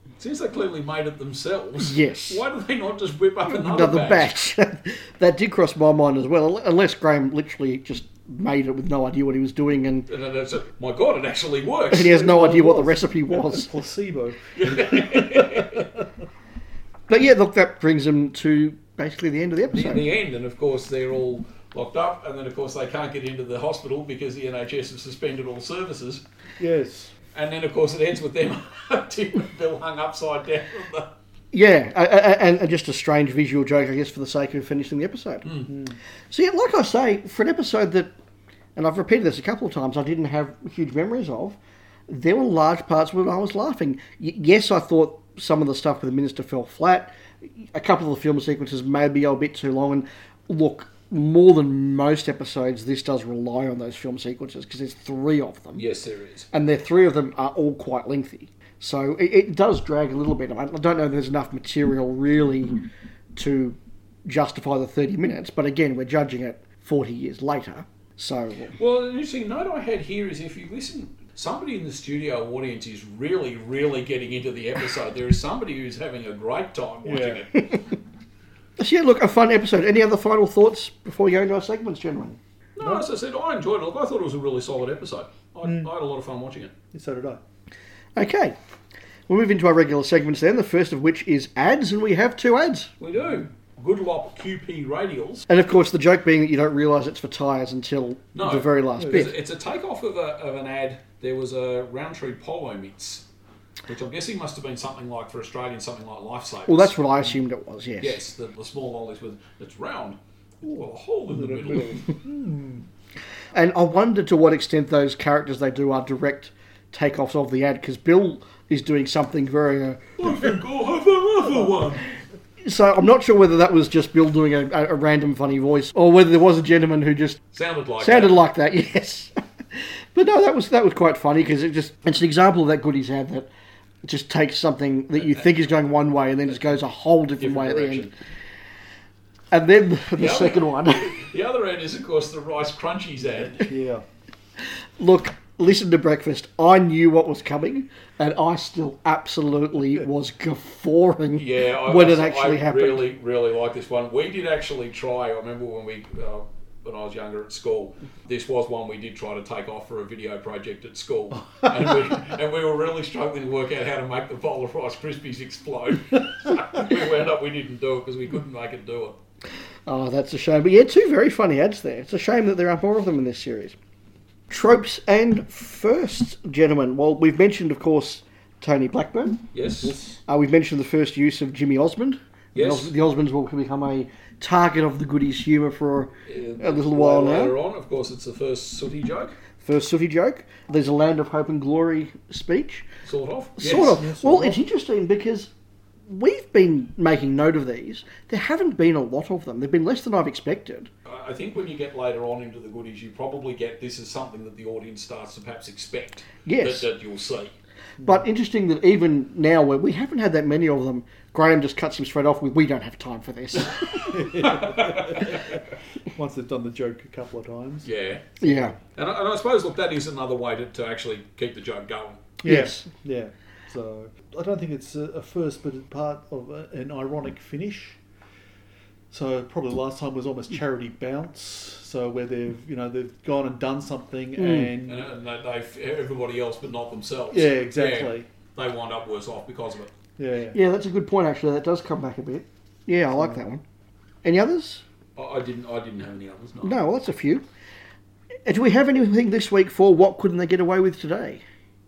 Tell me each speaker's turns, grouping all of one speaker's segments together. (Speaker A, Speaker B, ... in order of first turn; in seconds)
Speaker A: 0.2-4.3, 10.1-12.3, 14.6-15.8, 19.7-26.2, 27.3-31.1, 55.8-56.5, 68.8-77.8, 82.8-86.7, 93.0-95.5, 98.3-103.2, 103.9-107.0, 108.0-112.1, 120.2-122.1, 127.5-128.4, 137.4-138.1, 140.2-143.7, 151.4-169.2, 179.5-180.0, 182.5-182.9, 186.3-189.3, 193.1-194.0, 201.1-207.5, 214.4-215.2, 217.8-218.3, 218.9-222.3, 234.9-239.9, 245.2-246.8
Speaker B: 1.8-2.4, 3.5-10.1, 11.9-13.7, 17.1-20.1, 31.5-35.5, 36.3-38.1, 38.8-55.8, 56.5-62.9, 63.4-68.8, 78.8-82.4, 88.2-88.6, 89.3-92.9, 95.5-99.3, 106.7-108.2, 113.5-120.1, 122.6-127.4, 128.0-133.5, 134.0-138.1, 139.5-141.2, 145.0-153.1, 169.9-173.8, 174.5-179.4, 180.3-187.6, 189.6-192.9, 193.6-195.5, 196.1-200.9, 206.5-206.9, 208.0-214.3, 218.4-218.7, 222.4-222.9, 234.4-234.7, 240.5-243.6, 244.2-244.8, 246.6-247.4, 248.5-251.4
Speaker C: 12.1-16.0, 26.6-27.1, 35.7-36.0, 77.0-77.5, 85.7-85.9, 86.9-87.4, 99.0-99.3, 110.7-112.9, 143.6-144.0, 161.6-162.1, 179.8-180.2, 193.6-194.6, 214.1-215.6, 216.1-218.8, 222.4-228.0, 229.1-235.1, 237.3-238.3, 240.2-240.6